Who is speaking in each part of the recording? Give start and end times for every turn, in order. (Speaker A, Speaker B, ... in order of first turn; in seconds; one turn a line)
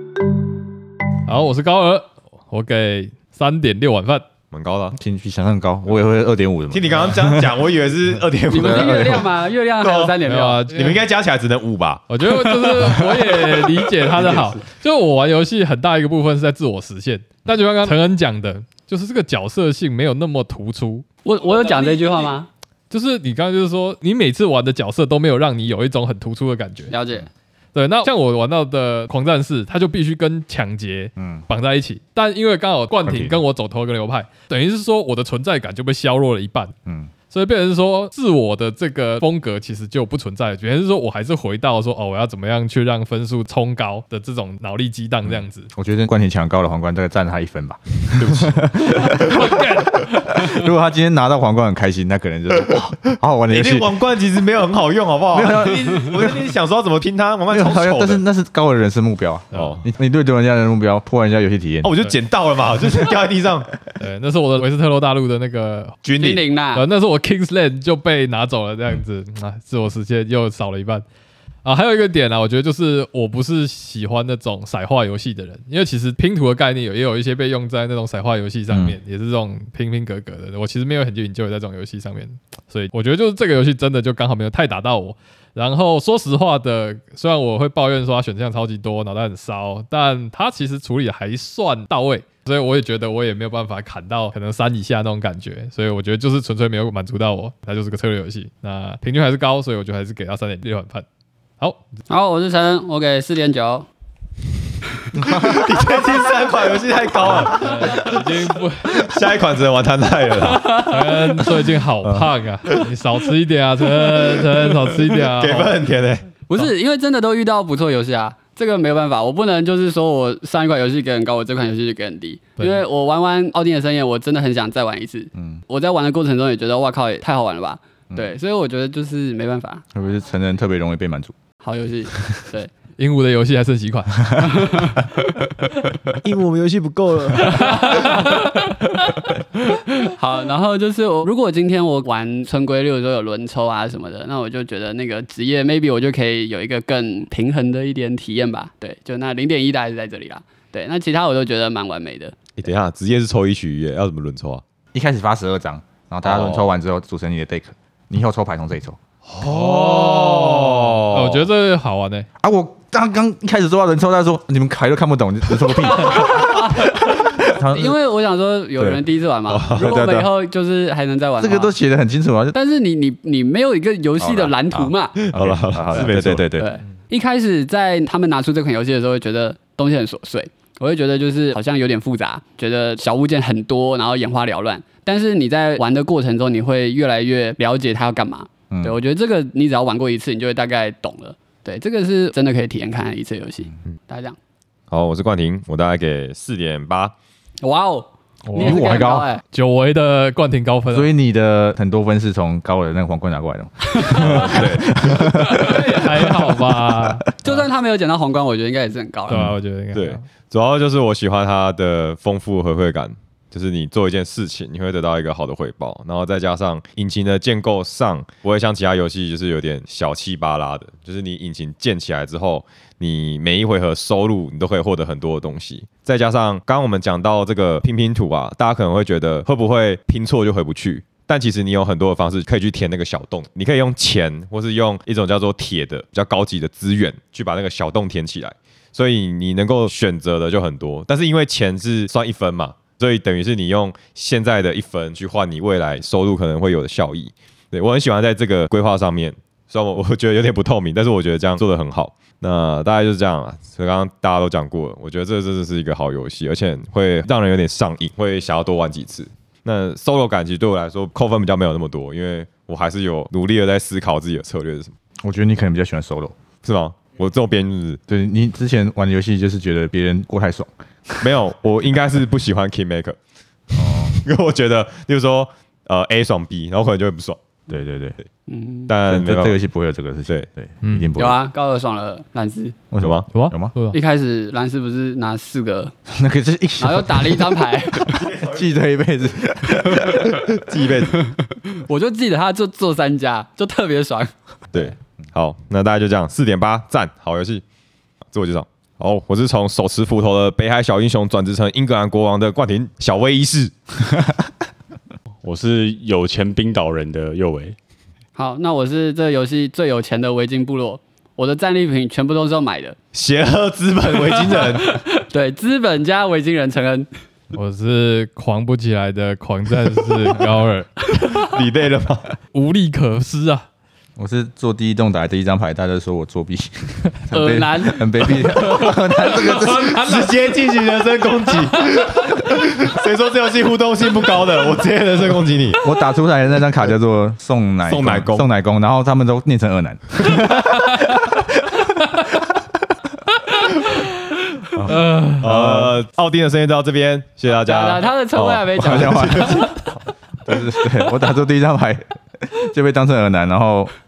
Speaker A: 1.3-4.2
Speaker B: 4.5-5.0
Speaker C: 4.9-7.6
Speaker B: 6.7-10.2
Speaker D: 8.5-10.7
Speaker C: 8.6-9.2
Speaker A: 10.2-11.0
Speaker B: 10.7-13.5
Speaker A: 12.1-21.1
Speaker C: 14.1-14.5
Speaker D: 21.2-22.5
Speaker A: 22.9-26.9
Speaker D: 26.9-27.3
Speaker A: 27.8-36.8
Speaker C: 31.2-31.5
Speaker C: 33.0-33.4
Speaker C: 36.9-37.1
Speaker A: 37.3-45.7
Speaker C: 45.7-54.0
Speaker B: 48.2-49.3
Speaker A: 49.1-50.5
Speaker B: 52.9-58.2
Speaker C: 55.3-56.5
Speaker C: 57.5-61.9
Speaker A: 59.5-59.8
Speaker B: 61.8-63.7
Speaker A: 64.0-66.0
Speaker B: 66.0-66.5
Speaker D: 66.2-66.8
Speaker A: 66.7-71.0
Speaker A: 71.6-101.0
Speaker C: 78.7-79.0
Speaker A: 101.6-101.9
Speaker D: 102.1-103.9
Speaker C: 105.1-105.7
Speaker B: 105.2-110.9
Speaker A: 107.3-109.0
Speaker A: 110.7-115.7
Speaker B: 115.2-116.3
Speaker D: 116.5-129.8
Speaker C: 129.9-131.3
Speaker D: 131.6-132.7
Speaker A: 133.0-134.5
Speaker C: 134.2-134.5
Speaker D: 134.5-135.1
Speaker B: 136.2-138.3
Speaker D: 137.5-138.4
Speaker A: 137.8-138.6
Speaker D: 139.9-152.5
Speaker B: 152.6-154.6
Speaker C: 154.9-159.0
Speaker B: 156.2-156.7
Speaker B: 159.3-161.5
Speaker A: 159.9-162.3
Speaker C: 160.3-161.0
Speaker C: 162.4-168.0
Speaker D: 166.2-166.7
Speaker D: 167.7-171.7
Speaker C: 168.8-169.1
Speaker B: 169.5-169.9
Speaker C: 169.7-170.3
Speaker C: 171.4-172.6
Speaker D: 172.5-175.2
Speaker C: 174.2-176.7
Speaker B: 175.2-176.4
Speaker D: 176.6-194.4
Speaker C: 188.7-189.0
Speaker B: 194.9-197.1
Speaker D: 197.6-199.4
Speaker A: 198.5-198.9
Speaker C: 198.6-199.3
Speaker A: 199.5-201.1
Speaker C: 200.9-207.2
Speaker D: 203.9-204.6
Speaker B: 204.0-205.6
Speaker A: 205.4-207.7
Speaker D: 207.4-209.5
Speaker A: 209.3-210.2
Speaker B: 209.9-264.9
Speaker C: 265.2-266.4
Speaker B: 266.6-268.0
Speaker C: 268.1-271.4
Speaker B: 271.2-273.2
Speaker B: 273.7-277.4
Speaker C: 273.7-274.2
Speaker C: 277.7-278.2
Speaker D: 278.5-278.9
Speaker B: 278.9-279.6
Speaker C: 279.1-281.4
Speaker A: 280.8-281.1
Speaker D: 281.2-282.8
Speaker C: 282.9-283.7
Speaker B: 283.0-283.3
Speaker A: 283.3-284.0
Speaker D: 283.9-285.9
Speaker C: 286.1-290.5
Speaker D: 286.8-288.2
Speaker B: 288.1-288.8
Speaker B: 289.9-291.3
Speaker D: 291.7-294.9
Speaker B: 294.7-297.6
Speaker B: 298.3-303.7
Speaker E: 305.4-307.8
Speaker D: 308.4-313.0
Speaker B: 313.1-315.0
Speaker D: 314.3-317.1
Speaker A: 317.5-321.0
Speaker B: 321.4-322.3
Speaker A: 322.5-323.7
Speaker C: 324.2-330.2
Speaker D: 327.3-329.5
Speaker A: 329.5-330.6
Speaker B: 329.6-335.9
Speaker C: 335.8-342.3
Speaker B: 337.9-338.5
Speaker C: 344.7-345.9
Speaker A: 344.9-345.7
Speaker B: 345.4-350.0
Speaker D: 347.5-349.7
Speaker C: 348.8-349.7
Speaker C: 350.5-353.9